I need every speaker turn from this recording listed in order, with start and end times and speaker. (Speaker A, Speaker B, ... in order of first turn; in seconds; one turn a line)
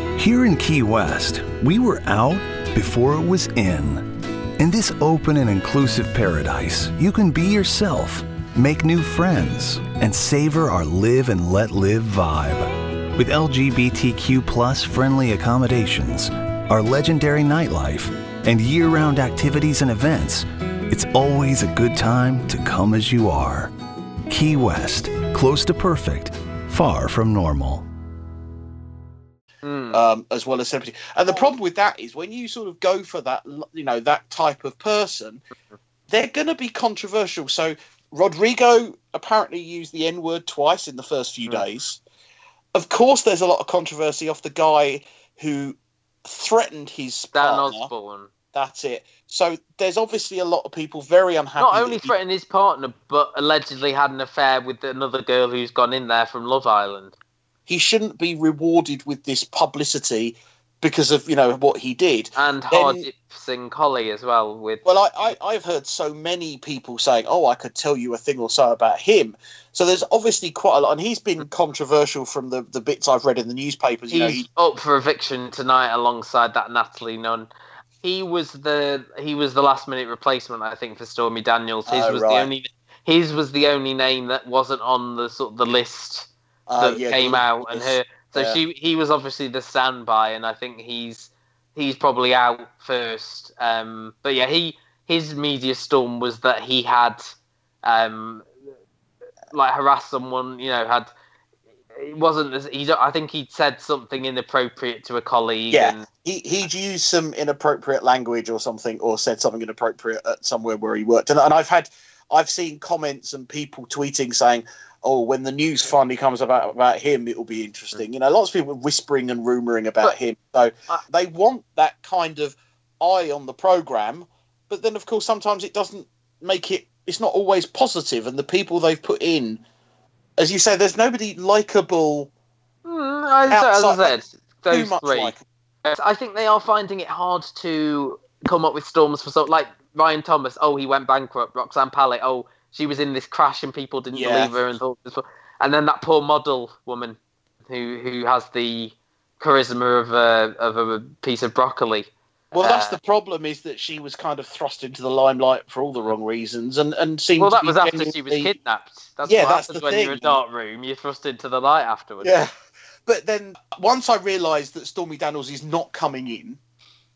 Speaker A: 0.1-23.7
Speaker A: 24.3-27.8
Speaker B: 29.6-30.0
Speaker C: 29.9-35.4
Speaker C: 36.1-42.0
Speaker C: 42.7-47.9
Speaker B: 47.3-48.3
Speaker C: 48.5-52.1
Speaker B: 51.6-57.1
Speaker C: 57.7-63.0
Speaker B: 62.4-65.3
Speaker C: 64.8-74.5
Speaker B: 74.1-77.5
Speaker B: 78.0-86.3
Speaker C: 81.9-82.5
Speaker C: 86.7-88.6
Speaker B: 86.8-97.3
Speaker B: 97.8-98.5
Speaker B: 99.5-101.1
Speaker B: 102.0-106.0
Speaker C: 105.7-129.6
Speaker C: 130.4-132.3
Speaker B: 132.8-135.3
Speaker C: 133.5-135.4
Speaker B: 135.8-147.2
Speaker C: 144.1-144.6
Speaker B: 147.7-153.0
Speaker C: 152.5-158.5
Speaker B: 157.4-162.3
Speaker C: 159.2-160.4
Speaker C: 162.2-162.5
Speaker C: 163.1-166.6